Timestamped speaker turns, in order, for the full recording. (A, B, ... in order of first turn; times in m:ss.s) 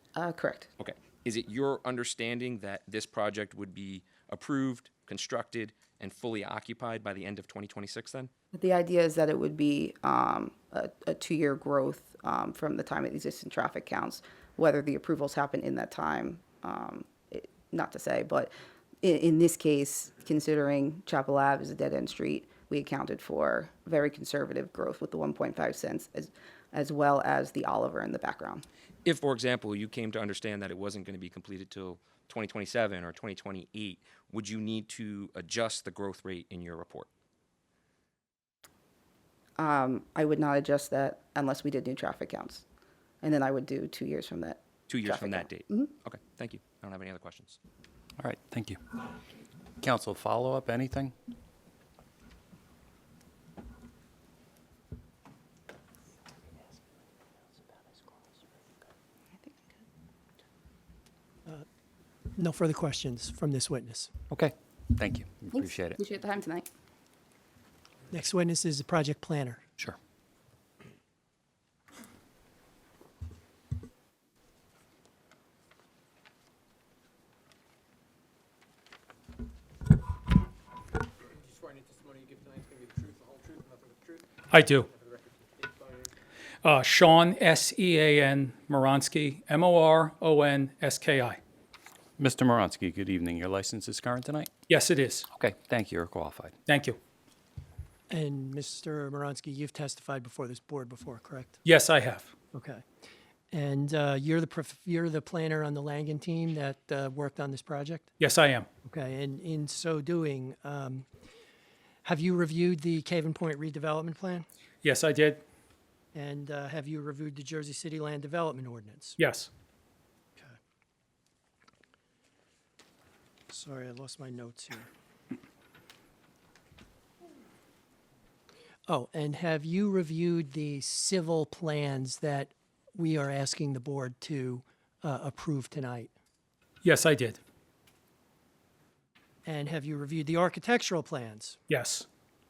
0:00.1-0:00.7 A
0:00.8-0:08.3 B
0:08.5-0:28.6 A
0:29.0-0:37.1 B
0:39.6-0:42.6 A
0:43.2-0:45.9 A
0:44.9-0:47.6 B
0:48.2-0:48.8 C
0:49.8-0:51.1 C
0:59.4-0:59.8 A
1:02.4-1:04.1 D
1:04.3-1:06.0 C
1:05.5-1:06.7 A
1:08.1-1:09.6 D
1:24.5-1:24.9 E
1:26.6-1:31.4 E
1:32.2-1:34.5 C
1:34.7-1:35.3 E
1:35.3-1:36.6 C
1:36.6-1:37.0 E
1:38.1-1:41.6 D
1:41.6-1:42.3 E
1:42.5-1:42.8 D
1:43.5-1:48.1 D
1:48.2-1:48.7 E
1:48.8-1:51.1 D
1:52.0-1:54.4 D
1:54.8-1:55.4 E
1:56.1-1:59.2 D
1:59.2-1:59.5 E
2:03.5-2:04.9 D
2:08.9-2:16.1 D
2:16.8-2:17.4 E
2:19.4-2:21.6 D
2:21.7-2:22.0 E